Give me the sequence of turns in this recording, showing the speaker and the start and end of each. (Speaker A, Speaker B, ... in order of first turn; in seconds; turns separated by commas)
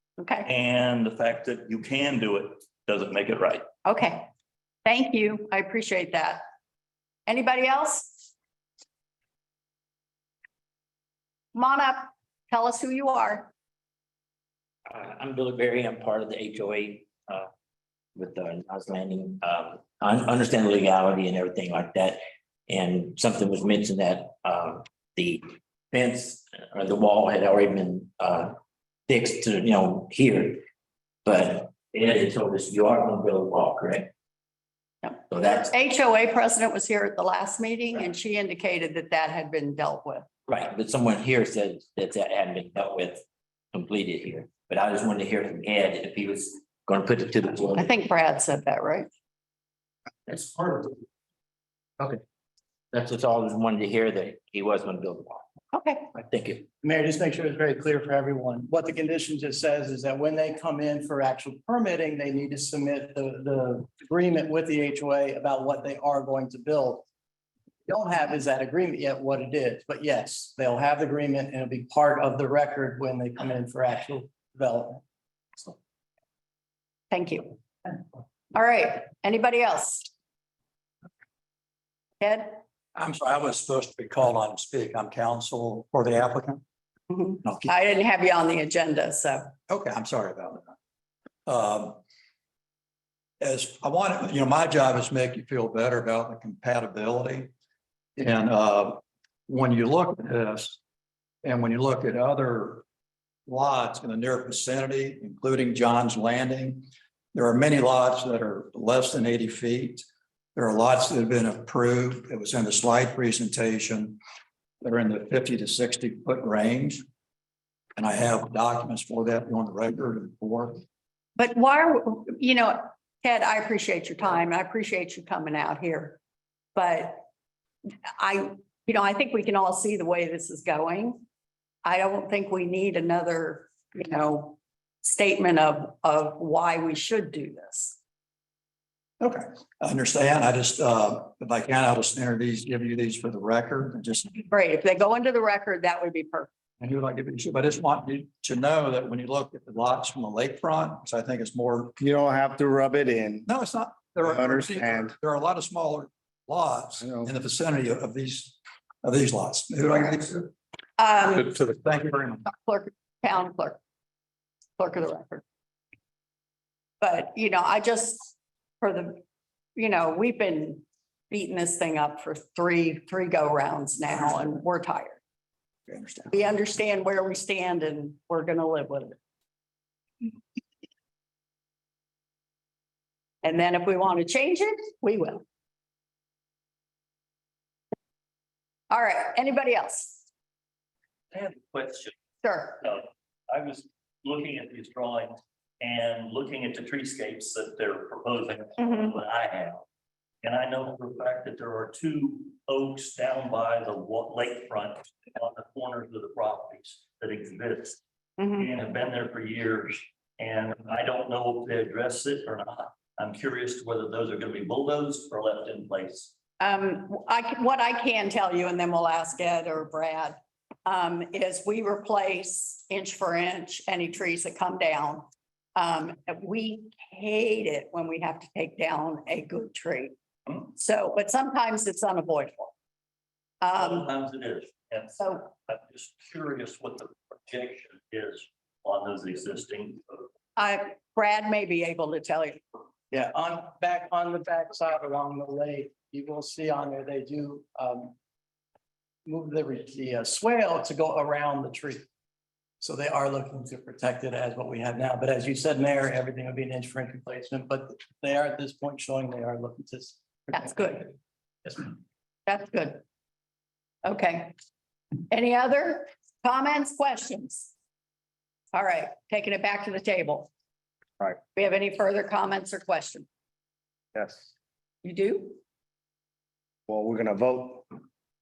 Speaker A: 0.2-0.5, Speaker B: 0.4-3.6, Speaker A: 3.8-4.3, Speaker A: 4.8-6.4, Speaker A: 7.2-8.3, Speaker A: 11.5-13.5, Speaker C: 14.9-17.5, Speaker C: 18.1-28.6, Speaker C: 29.1-30.6, Speaker C: 31.2-34.1, Speaker A: 35.0-40.2, Speaker C: 35.3-35.7, Speaker C: 40.5-47.9, Speaker A: 47.7-49.1, Speaker C: 50.3-51.0, Speaker C: 52.9-55.4, Speaker A: 55.7-56.1, Speaker C: 56.1-56.7, Speaker D: 56.8-67.0, Speaker D: 67.8-75.0, Speaker A: 77.1-78.0, Speaker A: 78.5-80.1, Speaker A: 82.2-82.6, Speaker E: 82.9-86.6, Speaker A: 87.1-89.5, Speaker E: 87.4-87.7, Speaker E: 89.7-90.7, Speaker E: 91.5-92.0, Speaker E: 93.4-97.5, Speaker E: 98.2-100.8, Speaker E: 101.4-102.8, Speaker E: 103.5-114.2, Speaker E: 114.8-117.0, Speaker E: 118.0-120.8, Speaker A: 121.3-126.2, Speaker A: 126.7-127.2, Speaker A: 128.2-131.2, Speaker A: 131.8-138.0, Speaker E: 139.2-144.3, Speaker A: 144.4-146.5, Speaker E: 146.8-151.9, Speaker F: 152.0-153.5, Speaker E: 153.4-160.5, Speaker F: 154.2-155.2, Speaker F: 157.0-157.3, Speaker A: 161.0-161.5, Speaker E: 161.2-162.4, Speaker A: 162.5-163.8, Speaker A: 164.8-165.4, Speaker A: 167.0-169.2, Speaker A: 169.8-175.2, Speaker E: 175.9-176.2, Speaker A: 176.3-179.2, Speaker A: 183.4-185.4, Speaker A: 188.9-190.2, Speaker B: 191.3-192.1, Speaker A: 192.4-192.8, Speaker B: 192.8-199.8, Speaker A: 198.8-199.1, Speaker B: 200.4-208.0, Speaker A: 208.4-208.7, Speaker B: 208.5-216.3, Speaker A: 216.6-230.1, Speaker A: 230.7-232.7, Speaker A: 233.6-234.1, Speaker B: 233.8-240.2, Speaker A: 235.2-235.4, Speaker A: 240.6-242.6, Speaker D: 243.1-248.1, Speaker D: 249.2-252.0, Speaker D: 252.8-260.8, Speaker A: 260.5-261.1, Speaker A: 262.5-263.0, Speaker A: 264.0-264.5, Speaker A: 265.3-267.7, Speaker A: 268.7-270.5, Speaker A: 271.5-273.3, Speaker F: 274.1-274.5, Speaker A: 275.0-275.6, Speaker F: 276.9-277.9